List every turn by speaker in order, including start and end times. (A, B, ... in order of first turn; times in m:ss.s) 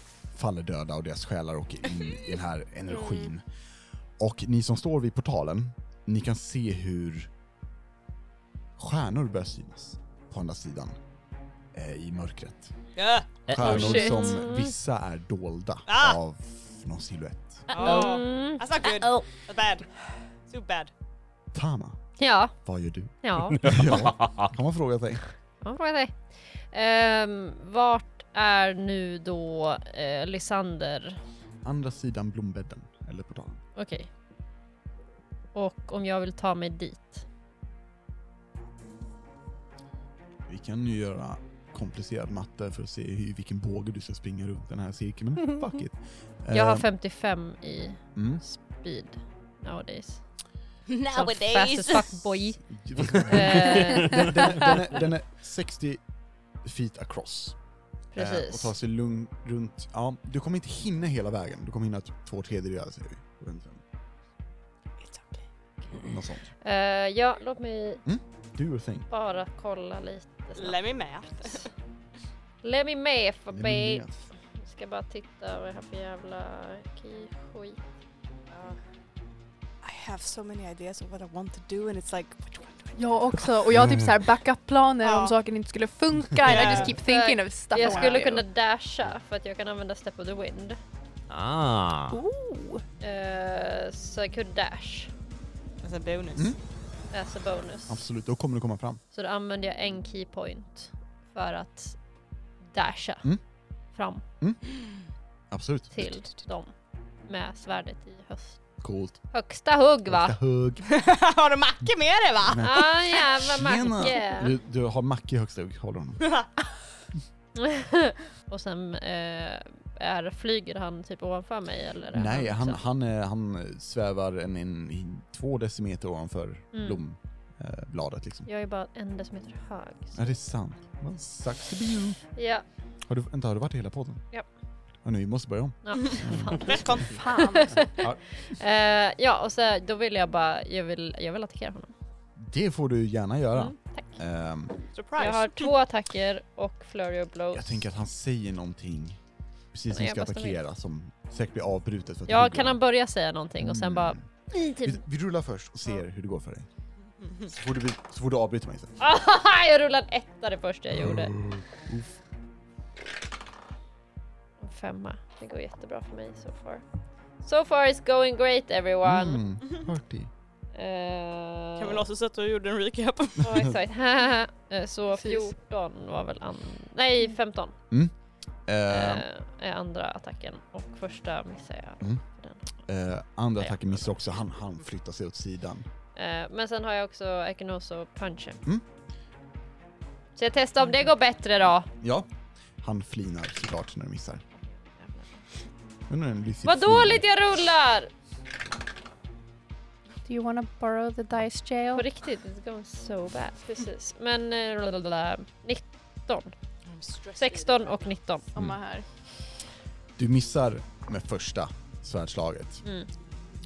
0:00.3-0:03.4 A
0:04.2-0:07.3 A
0:08.8-0:11.0 A
0:11.7-0:12.7 A
0:13.0-0:13.7 B
0:13.5-0:17.7 A
0:13.5-0:14.1 C
0:13.7-0:14.3 D
0:13.8-0:14.7 E
0:15.9-0:16.2 B
0:17.7-0:19.9 B
0:17.7-0:19.2 E
0:20.5-0:20.9 B
0:21.5-0:22.0 A
0:22.2-0:22.5 E
0:22.6-0:25.2 A
0:23.2-0:24.0 E
0:23.5-0:24.5 C
0:25.6-0:31.2 E
0:31.6-0:33.6 A
0:33.8-0:34.1 E
0:35.5-0:37.2 E
0:40.5-0:46.9 A
0:46.5-0:50.2 E
0:48.2-0:48.4 A
0:50.9-0:52.2 B
0:51.1-0:54.7 E
0:52.7-0:56.0 A
0:53.9-0:54.3 C
0:56.6-0:57.6 A
0:58.1-0:58.7 E
0:58.2-1:03.8 A
1:05.0-1:05.4 B
1:05.9-1:06.5 A
1:06.6-1:08.0 E
1:08.0-1:09.1 A
1:09.1-1:10.8 E
1:10.6-1:11.7 B
1:12.6-1:17.8 E
1:13.5-1:14.3 A
1:18.5-1:18.8 B
1:19.8-1:23.5 B
1:23.0-1:28.4 D
1:23.7-1:24.1 A
1:25.0-1:25.4 B
1:26.4-1:27.0 B
1:26.6-1:30.8 E
1:27.8-1:28.2 B
1:31.3-1:32.2 C
1:32.1-1:32.8 D
1:33.0-1:35.1 E
1:35.8-1:36.5 B
1:37.1-1:38.0 E
1:37.9-1:39.0 A
1:39.1-1:42.0 E
1:42.7-1:43.3 E
1:43.9-1:44.2 E
1:45.5-1:46.2 A
1:45.9-1:46.7 E
1:47.3-1:48.6 E
1:48.8-1:49.2 A
1:49.3-1:50.4 E
1:50.1-1:50.8 A
1:50.8-1:52.9 B
1:52.5-1:56.3 A
1:52.6-1:54.5 E
1:56.2-1:56.5 B
1:57.5-2:02.8 E
2:02.1-2:08.5 A
2:06.7-2:07.0 E
2:08.5-2:10.3 E
2:10.1-2:12.2 A
2:12.3-2:12.6 E
2:13.1-2:14.2 A
2:15.0-2:17.0 A
2:15.8-2:17.9 E
2:16.0-2:17.6 B
2:16.7-2:17.9 D
2:17.9-2:18.2 A
2:18.6-2:21.9 E
2:22.4-2:24.8 A
2:23.5-2:24.2 E
2:24.9-2:25.7 B
2:25.2-2:27.8 E
2:27.5-2:29.2 A
2:29.7-2:32.8 A
2:29.9-2:30.6 E
2:32.3-2:35.0 E
2:33.6-2:36.7 A
2:37.2-2:37.5 B
2:37.4-2:39.0 A
2:39.0-2:41.3 E
2:40.9-2:42.1 A
2:44.6-2:46.8 E
2:47.4-2:49.4 E
2:49.0-2:50.3 A
2:50.7-2:52.1 E
2:51.8-2:53.6 B
2:53.4-2:57.7 E
2:58.6-2:59.2 A
2:58.9-3:02.6 E
3:02.8-3:05.8 A
3:03.6-3:04.1 E
3:06.2-3:08.6 E
3:10.4-3:11.9 E
3:12.0-3:12.3 A
3:12.8-3:14.4 A
3:14.7-3:15.4 E
3:16.1-3:17.2 A
3:16.6-3:18.1 E
3:20.2-3:22.0 D
3:21.9-3:26.5 E
3:26.8-3:28.1 B
3:27.4-3:28.5 E
3:28.5-3:29.0 D
3:30.2-3:32.8 A